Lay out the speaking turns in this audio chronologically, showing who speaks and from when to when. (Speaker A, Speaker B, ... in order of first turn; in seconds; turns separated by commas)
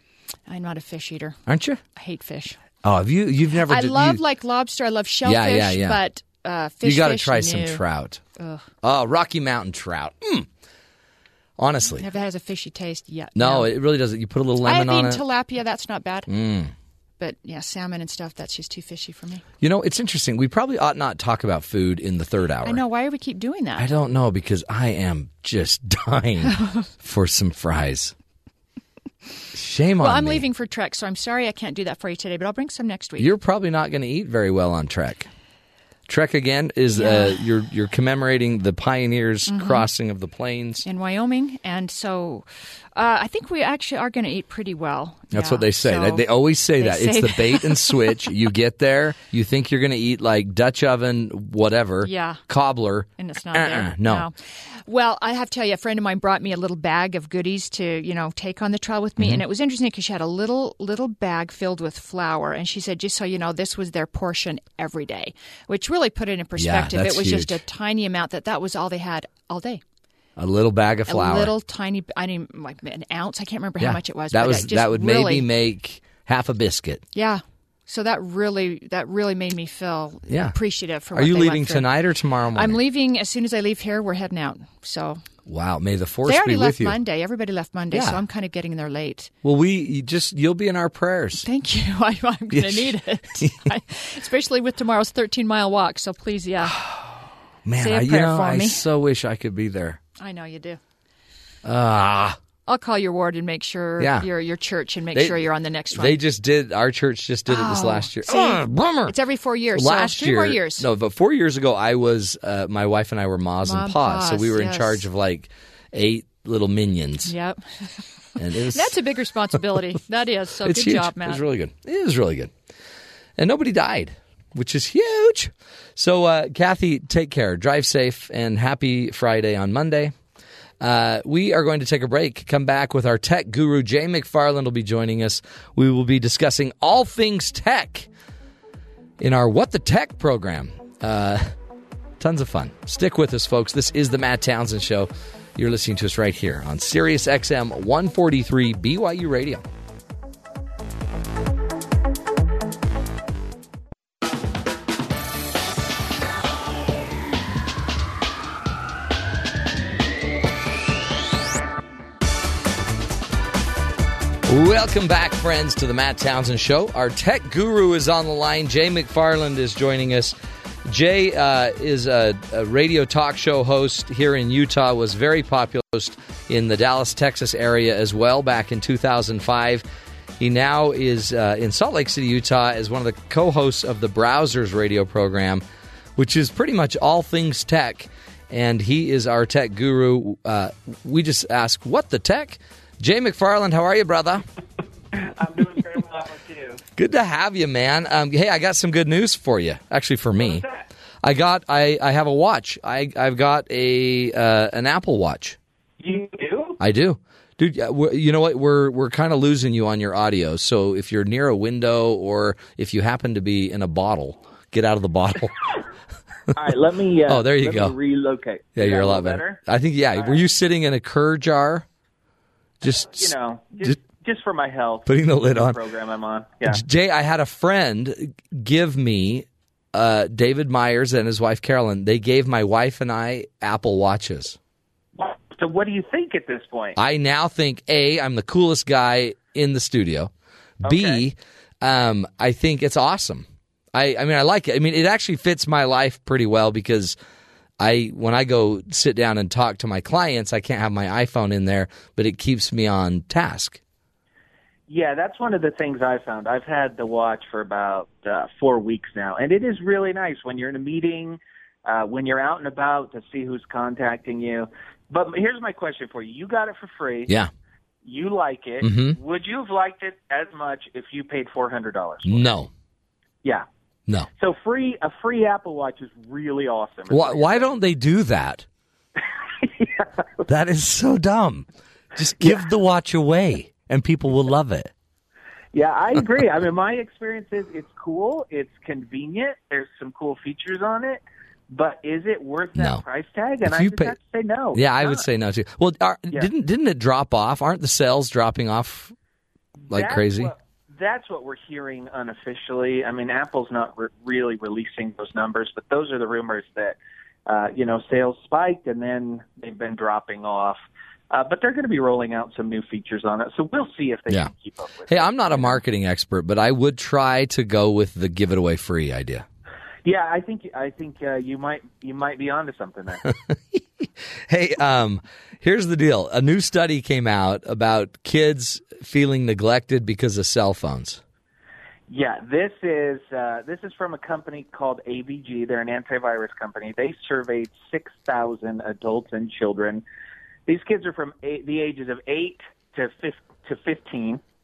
Speaker A: 0.5-1.4, Speaker B: 1.5-1.8, Speaker A: 1.9-2.6, Speaker B: 2.8-4.2, Speaker A: 3.7-7.8, Speaker B: 5.2-6.0, Speaker B: 6.8-8.2, Speaker A: 8.3-8.7, Speaker B: 8.8-10.5, Speaker B: 11.6-12.1, Speaker A: 12.0-13.7, Speaker B: 13.3-15.2, Speaker A: 14.6-16.3, Speaker B: 16.3-16.7, Speaker A: 17.2-19.4, Speaker B: 19.6-22.8, Speaker A: 22.6-23.9, Speaker B: 23.8-28.1, Speaker A: 26.5-26.8, Speaker B: 29.5-30.4, Speaker A: 30.0-33.3, Speaker B: 33.2-35.3, Speaker B: 36.1-40.9, Speaker A: 36.9-37.4, Speaker A: 39.5-39.9, Speaker A: 40.9-46.2, Speaker B: 45.3-54.3, Speaker A: 46.8-48.3, Speaker A: 52.0-52.4, Speaker A: 53.2-69.8, Speaker B: 59.2-59.4, Speaker B: 66.6-67.6, Speaker B: 70.4-71.5, Speaker A: 71.1-75.5, Speaker B: 73.8-77.0, Speaker A: 77.2-81.9, Speaker B: 80.3-80.6, Speaker B: 81.1-82.8, Speaker A: 82.5-85.2, Speaker B: 85.5-87.0, Speaker A: 86.2-89.3, Speaker B: 87.9-88.2, Speaker B: 89.4-91.5, Speaker A: 91.4-96.8, Speaker B: 92.5-93.6, Speaker B: 96.6-100.0, Speaker A: 97.8-98.8, Speaker A: 100.2-100.8, Speaker B: 101.6-102.4, Speaker A: 102.7-106.2, Speaker B: 104.0-104.3, Speaker B: 105.1-109.2, Speaker A: 107.5-110.8, Speaker B: 109.7-117.3, Speaker A: 113.6-115.0, Speaker A: 117.3-121.4, Speaker B: 118.4-119.0, Speaker B: 120.6-122.5, Speaker B: 123.4-130.2, Speaker B: 130.8-138.1, Speaker B: 139.2-141.6, Speaker B: 142.2-149.7, Speaker B: 164.5-179.8, Speaker B: 180.4-185.6, Speaker B: 186.2-194.4, Speaker C: 195.2-196.8, Speaker B: 196.9-200.6, Speaker C: 200.3-200.8, Speaker B: 201.2-205.6, Speaker C: 206.0-206.8, Speaker B: 206.8-215.7, Speaker C: 216.5-219.6, Speaker B: 217.3-217.9, Speaker B: 218.8-221.8, Speaker C: 220.2-220.4, Speaker B: 222.8-223.9, Speaker C: 223.1-226.8, Speaker B: 225.1-225.8, Speaker B: 226.6-234.6, Speaker C: 235.2-237.0, Speaker B: 237.0-247.2, Speaker C: 240.8-241.2, Speaker B: 247.8-253.8, Speaker C: 254.9-267.3, Speaker C: 268.0-272.6, Speaker B: 268.8-269.2, Speaker B: 272.2-272.7, Speaker C: 274.4-277.6, Speaker B: 277.1-278.6, Speaker C: 279.6-280.1, Speaker B: 280.5-284.9, Speaker C: 285.7-295.3, Speaker B: 292.8-293.0, Speaker B: 293.6-294.1, Speaker B: 294.7-299.1, Speaker C: 299.9-315.8, Speaker B: 299.9-300.5, Speaker B: 315.1-319.4, Speaker C: 320.1-323.2, Speaker B: 323.2-331.2, Speaker C: 332.1-340.0, Speaker C: 340.7-344.4